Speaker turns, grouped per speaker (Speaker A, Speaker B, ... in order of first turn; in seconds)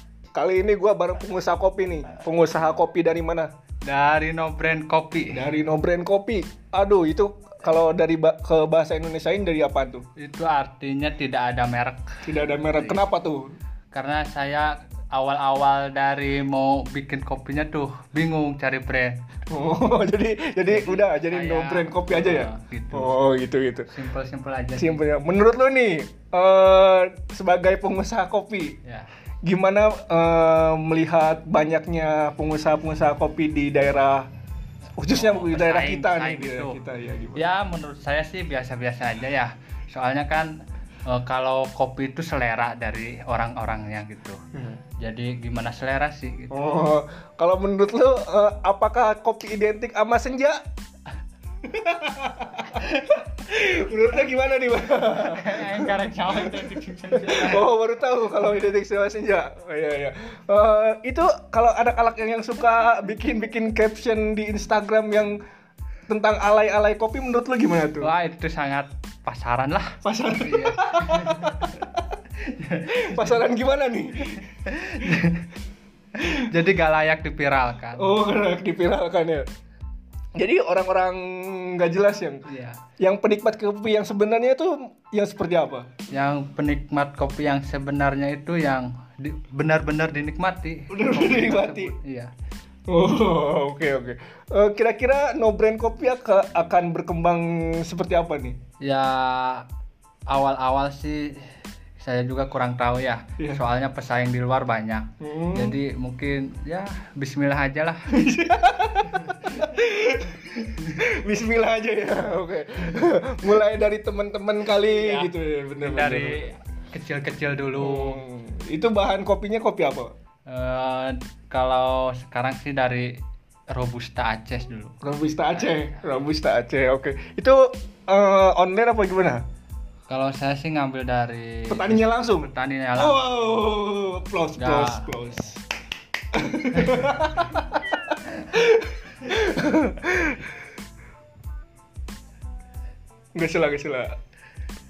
Speaker A: 0.3-3.5, 5.3-10.1, 12.2-13.6, 19.5-23.9, 24.8-28.8, 29.4-34.3, 35.0-37.5, 46.5-50.6, 51.6-65.4, 66.1-68.1, 70.0-71.9, 72.9-74.5, 78.0-79.5, 80.4-82.5, 83.0-85.9, 90.9-92.0, 92.9-98.6, 105.2-105.8, 108.1-116.4, 117.8-120.1, 125.0-129.4, 131.7-135.6, 136.3-140.4, 143.3-144.1
Speaker B: 3.8-5.5, 10.2-13.1, 13.9-19.2, 20.7-23.2, 23.9-25.0, 35.1-36.8, 37.4-40.5, 41.1-44.4, 45.0-46.5, 55.0-57.7, 68.0-71.8, 72.4-73.3, 74.5-75.5, 76.2-78.1, 82.5-82.8, 86.1-92.3, 98.8-99.7, 100.3-108.1, 115.0-118.2, 120.5-123.2, 123.7-125.0, 125.5-126.0, 130.1-133.2, 134.6-135.1